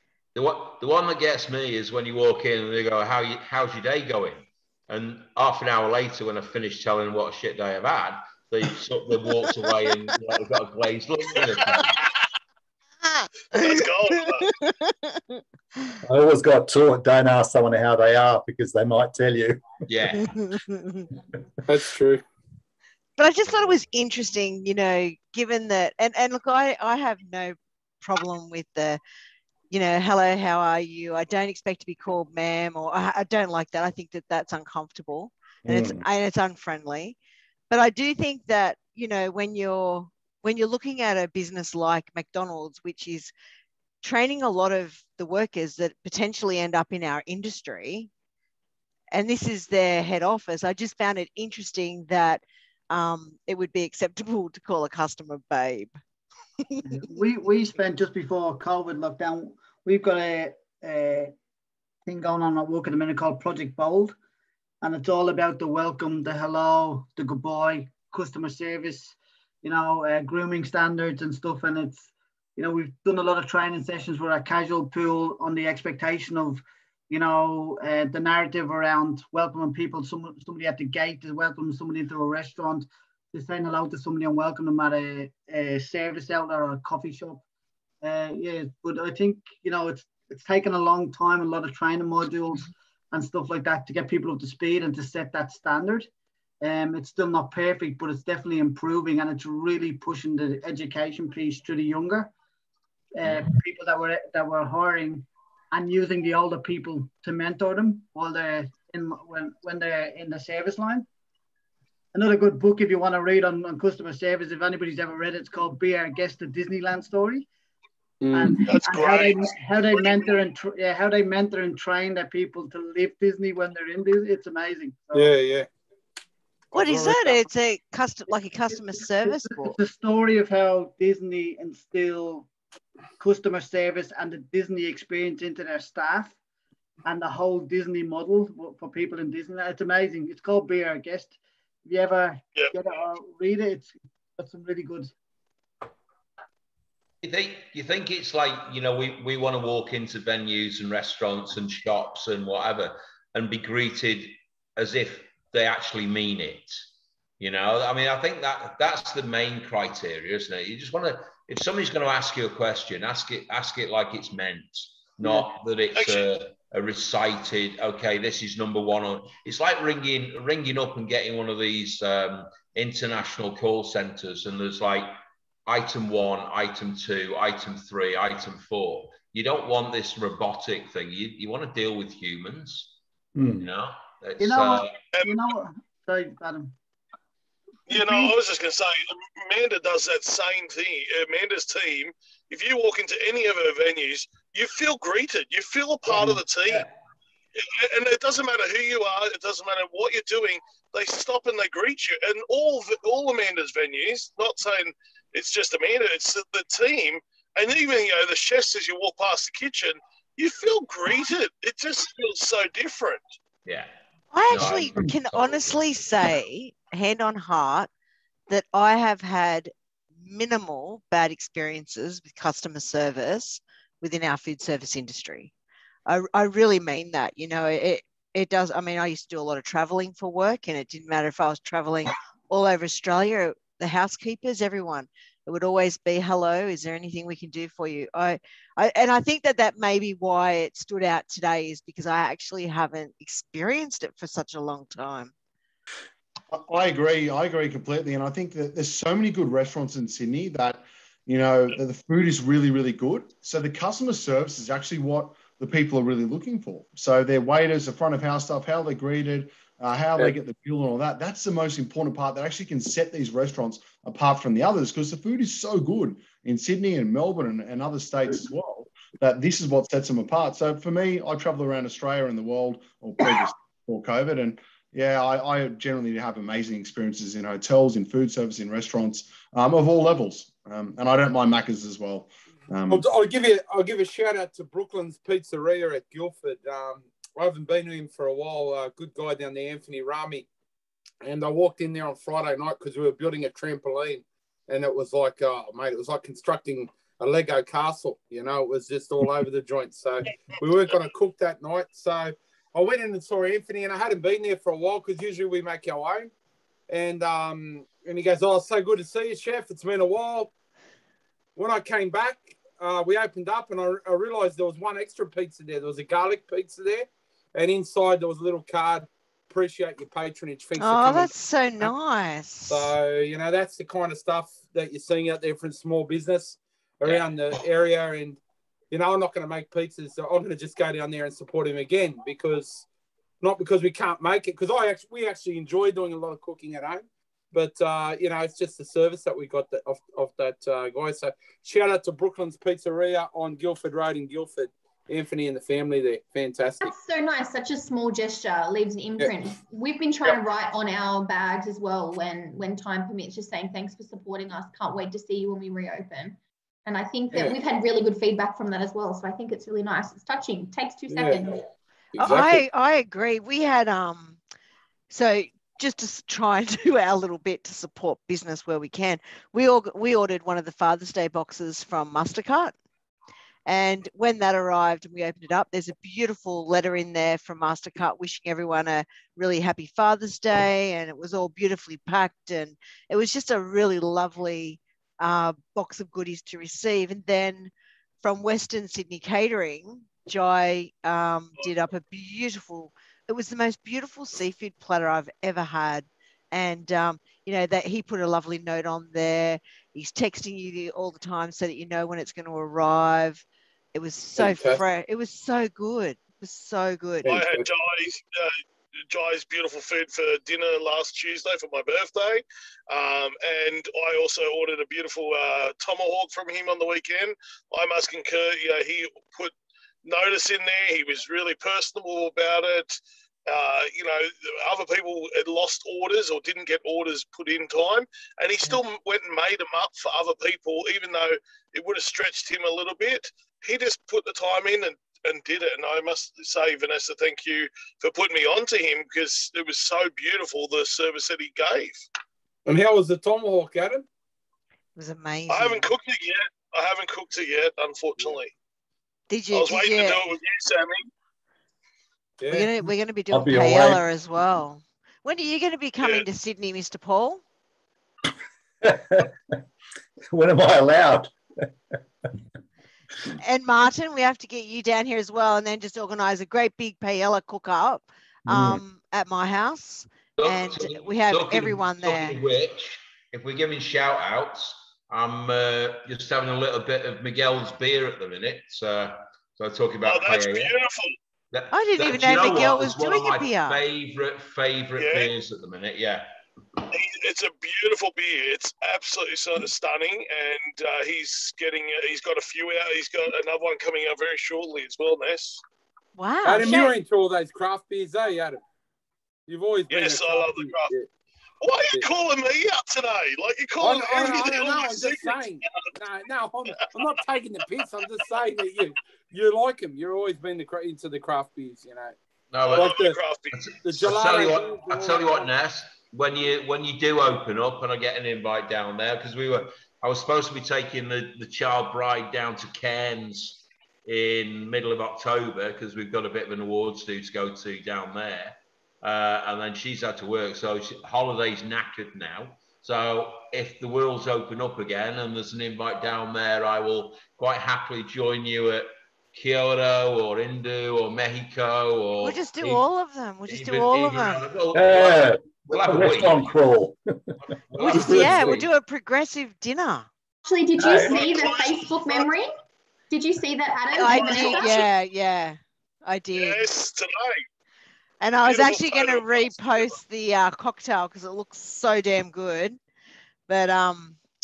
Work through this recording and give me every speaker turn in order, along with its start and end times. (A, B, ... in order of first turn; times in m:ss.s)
0:00.3-0:12.0 A
0:11.4-0:12.2 B
0:13.5-0:14.5 B
0:13.6-0:13.8 C
0:14.6-0:15.4 C
0:16.0-0:19.6 D
0:19.9-0:20.5 A
0:20.4-0:21.0 C
0:21.7-0:22.2 E
0:23.2-0:29.0 C
0:29.7-0:37.2 C
0:35.6-0:36.0 D
0:37.7-0:43.3 C
0:44.0-0:48.1 C
0:49.1-0:55.9 C
0:56.8-1:01.3 F
1:02.0-1:04.2 F
1:04.8-1:27.4 F
1:28.0-1:36.1 F
1:36.6-1:42.3 F
1:43.1-1:51.0 F
1:52.1-1:57.5 F
1:58.2-1:58.6 E
1:58.3-2:05.3 F
1:58.6-2:00.4 B
2:05.1-2:05.7 E
2:06.7-2:09.8 C
2:06.7-2:07.4 E
2:08.7-2:12.5 F
2:13.2-2:16.4 F
2:17.0-2:25.1 F
2:27.2-2:36.8 A
2:37.4-2:55.1 A
2:45.2-2:45.5 F
2:45.9-2:46.3 B
2:55.6-3:02.9 A
3:03.3-3:03.7 D
3:03.6-3:05.0 A
3:04.4-3:06.7 F
3:05.1-3:05.5 B
3:07.9-3:16.9 B
3:07.9-3:08.3 F
3:17.6-3:33.2 B
3:33.6-3:33.9 A
3:34.3-3:37.9 C
3:34.5-3:35.9 A
3:38.5-3:45.5 C
3:46.1-4:05.3 C
4:06.5-4:43.1 G
4:42.9-4:50.5 E
4:51.2-5:06.3 E
5:06.9-5:10.5 E
5:11.6-5:21.9 E
5:20.8-5:22.9 C
5:22.7-5:28.4 E
5:28.9-5:32.8 E
5:33.4-5:46.9 E
5:46.8-6:01.6 H
5:57.3-5:57.6 E
6:01.1-6:01.6 E
6:02.1-6:02.6 E
6:02.2-6:04.4 C
6:05.1-6:12.7 C
6:13.7-6:27.7 C
6:28.2-6:47.3 C
6:44.4-6:44.8 E
6:47.2-6:47.6 E
6:47.2-6:48.6 B
6:49.1-6:59.5 B
7:00.0-7:22.0 B
7:22.6-7:24.0 E
7:25.0-7:25.9 C
7:25.5-7:28.5 B
7:29.3-7:30.2 C
7:29.5-7:31.0 B
7:32.4-7:32.7 E
7:32.5-7:37.4 C
7:33.3-7:34.0 D
7:36.0-7:36.2 B
7:38.8-7:39.3 D
7:40.3-7:41.3 D
7:43.4-7:52.4 C
7:48.5-7:48.8 D
7:50.4-8:00.7 A
8:00.0-8:01.2 B
8:01.5-8:06.3 A
8:01.7-8:03.8 C
8:05.0-8:05.3 B
8:06.9-8:15.6 B
8:16.2-8:16.9 C
8:16.4-8:18.6 E
8:19.5-8:21.1 E
8:19.9-8:20.9 B
8:21.6-8:25.9 B
8:23.8-8:32.1 E
8:32.5-8:33.0 A
8:32.6-8:33.7 B
8:32.7-8:33.2 E
8:33.5-9:02.8 A
8:33.8-8:35.5 E
9:02.2-9:04.4 C
9:03.5-9:06.5 A
9:04.7-9:07.2 D
9:07.5-9:08.7 A
9:07.8-9:10.1 C
9:07.8-9:08.4 E
9:10.4-9:12.5 H
9:10.8-9:11.2 D
9:11.0-9:12.3 B
9:13.1-9:14.8 H
9:13.9-9:16.6 C
9:14.1-9:14.6 B
9:16.3-9:17.4 B
9:18.2-9:22.8 C
9:18.4-9:20.0 B
9:23.5-9:24.2 C